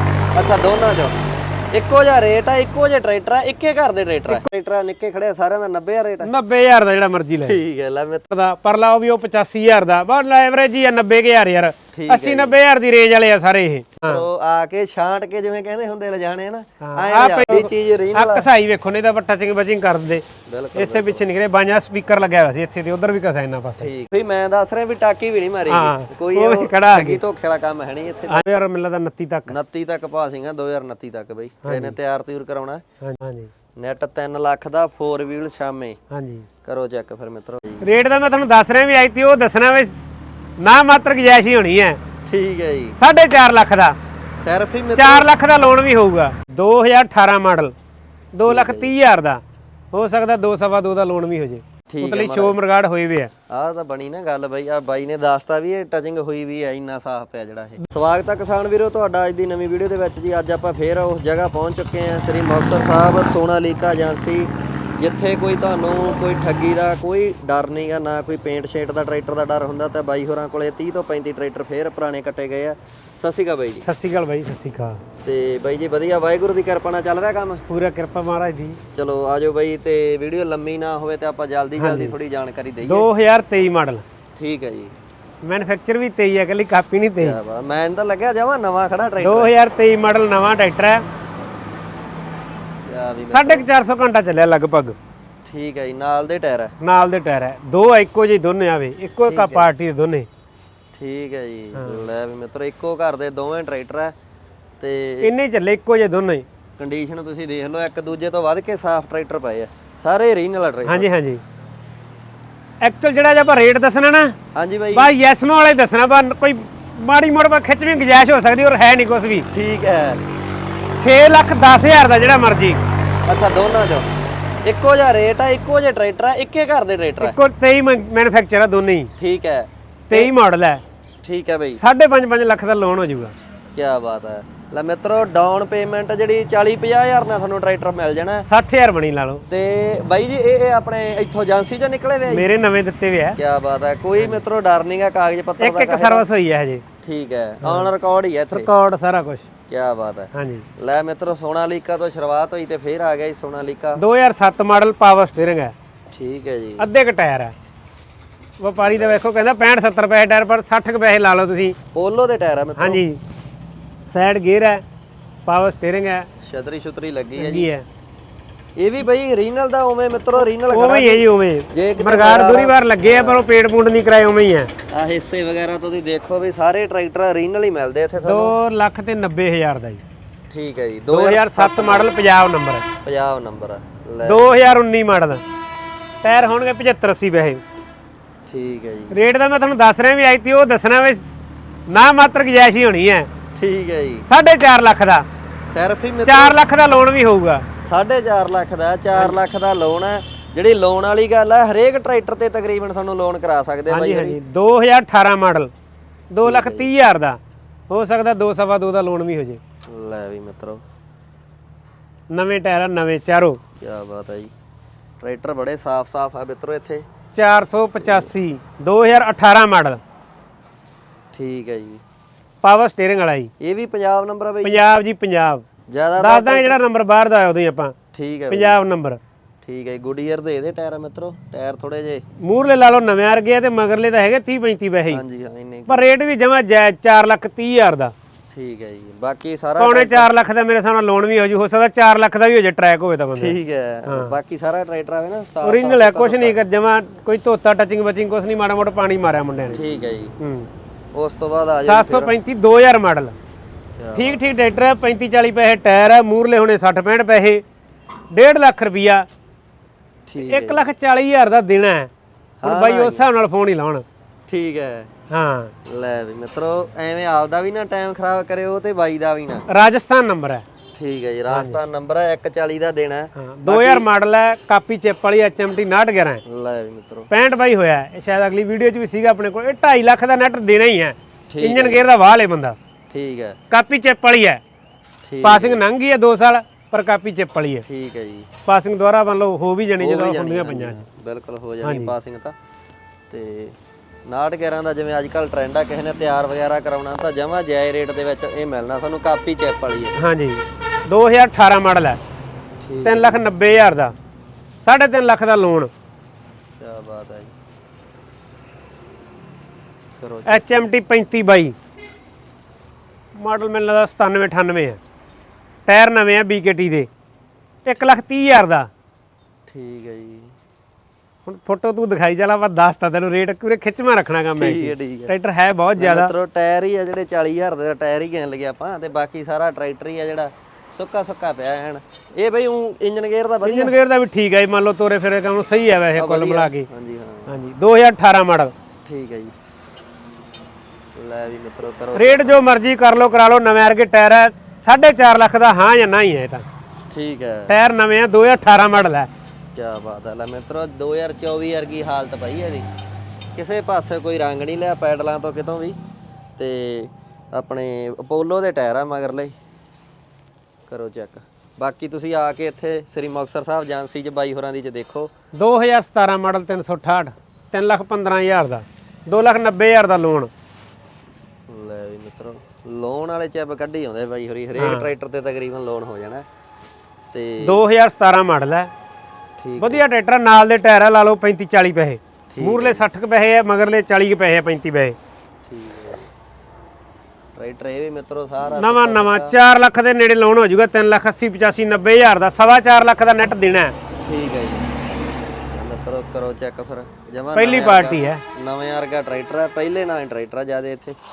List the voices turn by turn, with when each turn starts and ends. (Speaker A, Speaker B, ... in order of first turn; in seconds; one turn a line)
Speaker A: 0.3-1.2
Speaker A: 1.7-6.3
Speaker B: 6.2-7.6
Speaker A: 7.5-8.3
Speaker B: 8.3-14.2
Speaker A: 11.9-12.6
Speaker A: 14.0-18.5
Speaker B: 16.8-23.9
Speaker A: 20.5-21.2
Speaker A: 23.8-28.4
Speaker B: 25.7-27.2
Speaker B: 28.3-29.6
Speaker A: 29.5-32.8
Speaker B: 31.6-32.0
Speaker B: 33.0-33.5
Speaker A: 33.8-36.0
Speaker B: 36.1-36.5
Speaker A: 36.6-37.9
Speaker B: 37.8-40.0
Speaker B: 40.6-42.0
Speaker A: 42.3-43.0
Speaker B: 43.0-44.0
Speaker A: 44.4-45.3
Speaker B: 45.0-47.7
Speaker B: 48.4-49.4
Speaker A: 48.5-48.9
Speaker B: 49.9-53.3
Speaker A: 51.9-52.6
Speaker A: 53.5-73.9
Speaker B: 73.8-75.0
Speaker A: 75.2-77.6
Speaker B: 77.7-78.8
Speaker A: 78.9-83.1
Speaker B: 81.8-82.2
Speaker B: 82.8-84.0
Speaker A: 84.4-84.9
Speaker B: 85.4-87.4
Speaker A: 87.2-89.5
Speaker B: 89.2-91.0
Speaker A: 92.9-93.7
Speaker B: 93.3-95.0
Speaker A: 95.5-96.7
Speaker B: 96.8-100.3
Speaker A: 99.2-99.7
Speaker A: 100.9-104.1
Speaker B: 101.8-102.0
Speaker A: 104.8-105.3
Speaker B: 105.2-106.5
Speaker A: 106.8-111.1
Speaker B: 110.9-111.4
Speaker B: 112.8-114.3
Speaker A: 114.5-115.1
Speaker B: 114.9-119.5
Speaker A: 119.5-120.2
Speaker B: 121.0-122.8
Speaker A: 123.2-124.1
Speaker A: 124.7-127.4
Speaker B: 127.2-129.1
Speaker A: 129.2-130.3
Speaker B: 130.1-130.8
Speaker A: 131.2-131.8
Speaker B: 131.8-133.3
Speaker A: 133.8-138.5
Speaker B: 138.5-139.4
Speaker A: 139.5-142.5
Speaker B: 142.3-143.4
Speaker A: 143.4-146.3
Speaker B: 144.2-144.4
Speaker B: 145.6-146.8
Speaker A: 147.0-148.7
Speaker B: 147.6-147.9
Speaker B: 148.5-149.5
Speaker A: 149.7-154.1
Speaker B: 150.3-150.7
Speaker B: 154.0-155.7
Speaker A: 156.1-156.9
Speaker B: 156.8-157.5
Speaker B: 158.6-161.8
Speaker A: 158.8-159.2
Speaker A: 161.9-163.0
Speaker B: 162.8-163.2
Speaker B: 164.1-164.8
Speaker B: 165.5-166.3
Speaker A: 166.4-167.7
Speaker B: 167.4-167.8
Speaker A: 168.8-173.5
Speaker B: 170.4-174.7
Speaker A: 174.9-178.6
Speaker B: 178.2-180.0
Speaker A: 180.5-182.2
Speaker B: 181.1-182.8
Speaker A: 183.0-184.6
Speaker B: 184.2-185.4
Speaker B: 186.2-187.6
Speaker A: 188.5-189.2
Speaker B: 189.1-191.3
Speaker B: 191.9-193.3
Speaker A: 193.6-194.3
Speaker B: 194.3-195.3
Speaker A: 195.7-196.6
Speaker B: 196.2-197.7
Speaker A: 197.8-204.4
Speaker B: 203.9-205.7
Speaker B: 206.3-207.4
Speaker A: 206.4-206.9
Speaker B: 207.9-209.6
Speaker A: 209.9-210.8
Speaker B: 212.3-213.6
Speaker A: 213.8-214.5
Speaker A: 215.2-217.1
Speaker B: 217.3-220.0
Speaker A: 218.0-218.3
Speaker A: 221.3-222.0
Speaker B: 222.6-223.5
Speaker A: 223.6-224.8
Speaker B: 224.6-225.7
Speaker A: 225.9-226.8
Speaker B: 226.2-228.0
Speaker A: 228.1-228.8
Speaker B: 228.5-229.2
Speaker A: 229.6-232.2
Speaker B: 232.4-235.2
Speaker A: 235.1-236.1
Speaker B: 235.9-238.1
Speaker A: 238.5-240.3
Speaker B: 239.8-243.6
Speaker A: 243.4-246.6
Speaker B: 244.1-244.3
Speaker B: 245.6-249.8
Speaker A: 249.7-250.4
Speaker B: 250.4-250.7
Speaker A: 251.1-252.3
Speaker B: 251.9-253.3
Speaker A: 254.0-254.4
Speaker B: 254.2-257.6
Speaker B: 258.3-259.3
Speaker A: 260.3-260.9
Speaker B: 260.4-262.1
Speaker A: 262.6-263.3
Speaker B: 262.6-264.1
Speaker A: 264.5-265.1
Speaker B: 265.3-265.7
Speaker A: 265.9-269.7
Speaker B: 269.7-270.6
Speaker A: 270.9-274.1
Speaker B: 271.5-271.8
Speaker B: 273.4-276.4
Speaker A: 276.5-277.3
Speaker B: 277.3-282.8
Speaker A: 281.5-282.1
Speaker A: 283.1-283.6
Speaker B: 283.7-284.6
Speaker A: 285.3-285.8
Speaker B: 285.4-287.9
Speaker A: 287.9-288.5
Speaker B: 288.7-291.0
Speaker A: 290.0-292.6
Speaker B: 291.8-292.1
Speaker A: 293.3-300.2
Speaker B: 300.2-302.2
Speaker A: 302.8-303.5
Speaker B: 303.0-304.1
Speaker B: 304.8-305.9
Speaker A: 306.8-307.5
Speaker A: 310.2-310.9
Speaker B: 310.5-311.7
Speaker B: 313.4-315.0
Speaker B: 315.9-317.1
Speaker B: 317.9-318.9
Speaker A: 319.7-320.5
Speaker B: 321.5-326.3
Speaker A: 324.6-325.3
Speaker A: 326.0-333.9
Speaker B: 333.6-336.9
Speaker A: 336.2-337.5
Speaker B: 337.5-338.7
Speaker A: 339.1-339.5
Speaker A: 341.2-342.6
Speaker B: 342.1-346.6
Speaker A: 347.1-347.8
Speaker B: 347.7-349.3
Speaker A: 349.8-352.9
Speaker A: 353.6-356.0
Speaker A: 356.6-359.5
Speaker A: 360.9-365.3
Speaker B: 365.6-370.5
Speaker A: 371.7-376.4
Speaker B: 374.8-375.1
Speaker A: 377.3-377.8
Speaker B: 377.6-378.9
Speaker A: 379.6-380.0
Speaker B: 379.8-385.2
Speaker A: 382.5-383.0
Speaker A: 385.7-386.3
Speaker A: 387.6-389.5
Speaker B: 388.8-393.9
Speaker A: 394.2-394.9
Speaker A: 395.7-401.2
Speaker B: 397.6-398.4